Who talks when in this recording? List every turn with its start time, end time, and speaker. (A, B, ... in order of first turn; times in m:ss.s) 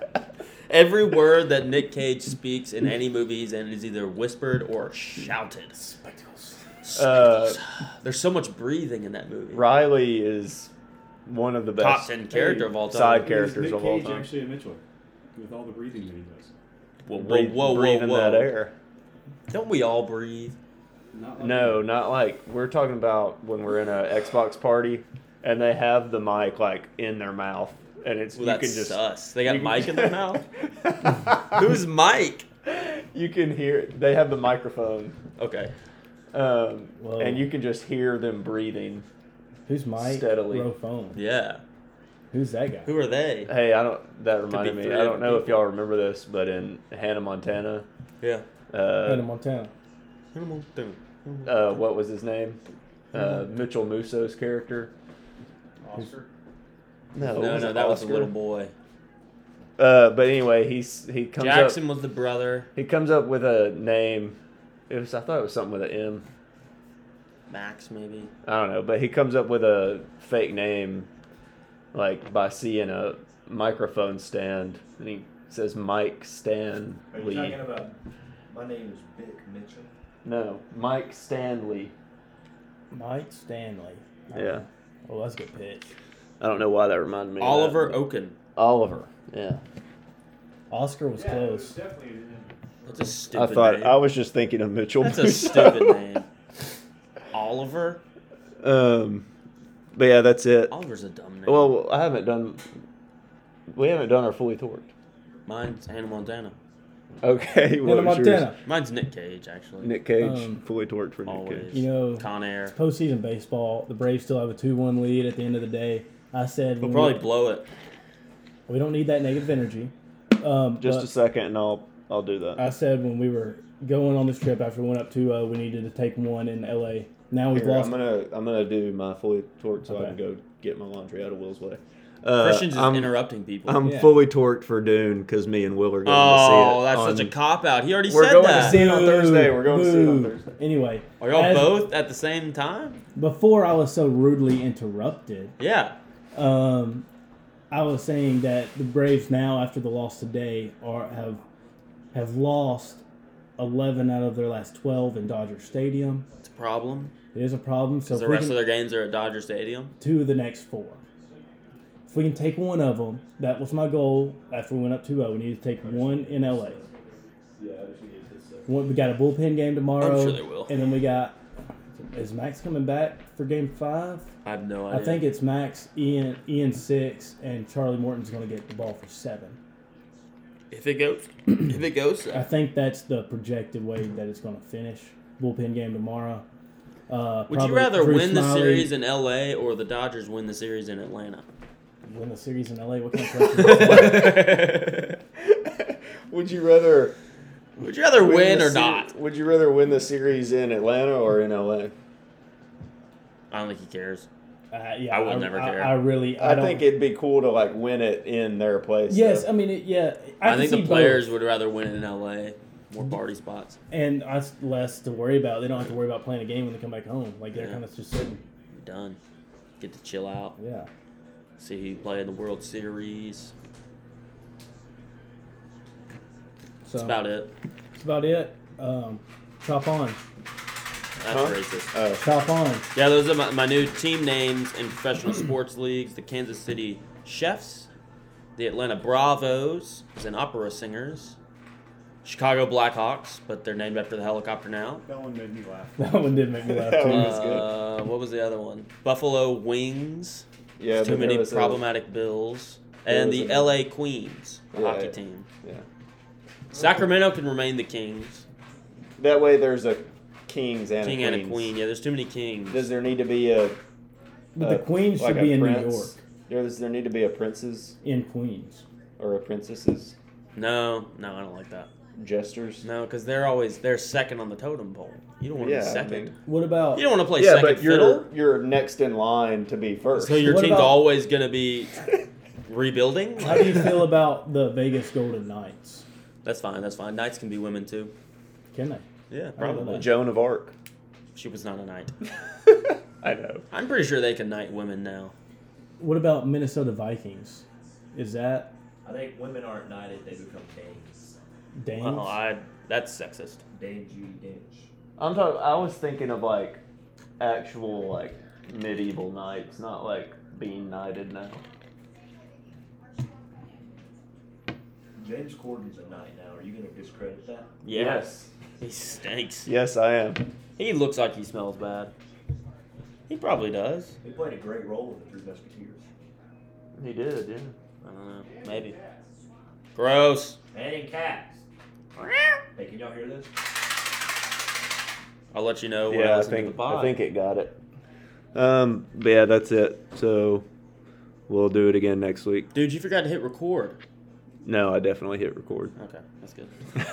0:00.7-0:05.8 A
0:05.8-0:06.6 B
0:06.8-0:09.7 A
0:06.9-0:07.6 C
0:09.5-0:10.7 C
0:11.2-0:14.3 C
0:11.8-0:13.2 A
0:13.0-0:14.8 D
0:15.4-0:16.5 D
0:17.1-0:18.5 A
0:17.1-0:18.7 C
0:19.5-0:20.6 A
0:21.1-0:21.9 D
0:21.4-0:31.6 C
0:28.3-0:30.4 A
0:31.5-0:32.4 A
0:32.6-0:35.2 C
0:35.4-0:35.7 A
0:36.3-0:39.0 C
0:37.0-0:37.5 B
0:39.6-0:41.2 B
0:40.0-0:40.7 C
0:41.1-0:41.6 A
0:42.3-0:42.9 B
0:42.9-0:43.5 A
0:43.5-0:47.9 C
0:44.5-0:45.7 A
0:48.2-0:48.4 A
0:48.7-0:49.3 C
0:49.0-0:49.7 B
0:50.3-0:51.8 A
0:51.4-0:52.6 C
0:53.1-0:54.9 C
0:55.8-0:56.3 D
0:57.1-0:58.3 C
0:57.2-0:58.7 A
0:59.8-1:01.8 C
1:01.4-1:02.7 A
1:02.7-1:04.4 C
1:04.9-1:06.2 C
1:07.5-1:08.3 A
1:08.4-1:11.1 C
1:11.9-1:17.6 C
1:17.1-1:18.0 E
1:18.5-1:19.9 E
1:20.2-1:21.9 C
1:22.9-1:25.9 B
1:24.3-1:24.6 C
1:26.4-1:28.0 C
1:27.4-1:28.4 A
1:28.6-1:29.6 C
1:30.7-1:31.8 B
1:31.2-1:33.2 D
1:32.9-1:34.0 A
1:33.3-1:36.0 C
1:35.0-1:36.3 A
1:37.3-1:38.0 A
1:38.6-1:39.3 C
1:39.9-1:40.7 C
1:40.7-1:41.8 A
1:41.5-1:42.7 C
1:43.7-1:44.9 C
1:45.4-1:46.6 A
1:47.2-1:48.5 C
1:47.8-1:48.6 B
1:48.6-1:49.9 A
1:49.8-1:51.7 C
1:50.2-1:50.6 B
1:51.2-1:52.7 A
1:51.7-1:57.2 B
1:56.8-1:57.6 A
1:58.7-2:01.1 B
2:00.8-2:02.6 C
2:02.6-2:08.0 B
2:07.5-2:17.3 C
2:09.9-2:10.2 B
2:12.4-2:13.8 A
2:13.8-2:14.2 B
2:16.0-2:18.8 A
2:18.0-2:20.5 C
2:18.5-2:21.8 B
2:21.2-2:23.0 A
2:23.2-2:25.5 B
2:25.6-2:26.0 A
2:26.3-2:27.1 B
2:27.7-2:31.4 B
2:32.1-2:33.0 B
2:33.6-2:36.2 B
2:36.4-2:37.1 A
2:37.3-2:38.6 B
2:38.1-2:39.9 A
2:40.0-2:41.0 B
2:42.1-2:46.8 B
2:45.9-2:46.5 C
2:47.6-2:48.7 C
2:48.7-2:51.4 B
2:50.0-2:50.7 A
2:52.1-2:54.3 B
2:54.4-2:55.3 A
2:54.9-2:59.6 B
3:00.7-3:02.4 A
3:02.3-3:06.4 B
3:07.1-3:08.9 B
3:07.5-3:11.5 A
3:12.0-3:14.3 B
3:13.6-3:17.1 C
3:13.6-3:15.1 A
3:17.8-3:19.1 A
3:18.1-3:21.9 C
3:23.5-3:24.3 A
3:24.7-3:26.8 B
3:25.1-3:26.0 A
3:26.4-3:29.5 C
3:29.1-3:31.3 B
3:30.4-3:33.8 A
3:33.9-3:38.4 B
3:37.5-3:37.8 A
3:38.7-3:39.2 A
3:39.8-3:40.6 A
3:40.6-3:40.9 B
3:41.6-3:43.5 A
3:46.9-3:47.2 B
3:47.0-3:47.5 A
3:48.0-3:50.2 B
3:51.2-3:51.9 A
3:51.3-3:52.2 C
3:52.2-3:52.9 B
3:52.9-3:57.9 A
3:58.6-4:01.4 A
4:02.2-4:05.0 A
4:05.0-4:06.6 D
4:06.0-4:07.6 B
4:06.6-4:07.7 C
4:07.0-4:15.5 A
4:10.8-4:11.8 C
4:13.1-4:13.8 C
4:14.7-4:15.8 C
4:16.7-4:18.4 A
4:19.2-4:21.7 C
4:21.0-4:22.9 A
4:22.7-4:23.8 C
4:24.6-4:26.2 B
4:24.6-4:28.0 C
4:28.0-4:28.8 B
4:29.2-4:30.1 C
4:30.6-4:31.9 A
4:32.2-4:32.8 C
4:32.8-4:36.4 A
4:35.6-4:36.3 C
4:36.4-4:37.1 B
4:36.9-4:38.2 A
4:37.4-4:40.4 C
4:40.1-4:42.0 A
4:40.3-4:41.0 B
4:42.6-4:44.1 A
4:43.4-4:46.0 B
4:46.4-4:48.1 A
4:48.7-4:49.0 B
4:49.3-4:50.2 A
4:49.6-4:50.1 B
4:49.8-4:50.7 C
4:51.3-4:52.2 A
4:53.2-4:53.6 C
4:53.7-4:55.3 A
4:56.0-4:58.7 B
4:59.0-5:01.4 E
5:01.8-5:02.4 B
5:02.0-5:03.6 A
5:03.7-5:04.9 E
5:05.2-5:06.8 C
5:07.4-5:11.6 C
5:15.2-5:17.7 E
5:17.8-5:18.2 A
5:17.9-5:18.5 C
5:18.8-5:19.7 A
5:19.6-5:20.5 C
5:20.8-5:22.1 A
5:23.3-5:24.2 A
5:24.2-5:26.0 E
5:27.0-5:27.7 C
5:28.0-5:29.0 A
5:29.9-5:30.6 A
5:30.7-5:31.6 E
5:32.2-5:32.6 A
5:32.8-5:33.5 E
5:35.5-5:37.2 A
5:36.1-5:37.8 C
5:38.6-5:40.7 C
5:41.5-5:42.7 C
5:42.7-5:44.0 A
5:44.6-5:45.9 C
5:46.0-5:46.7 A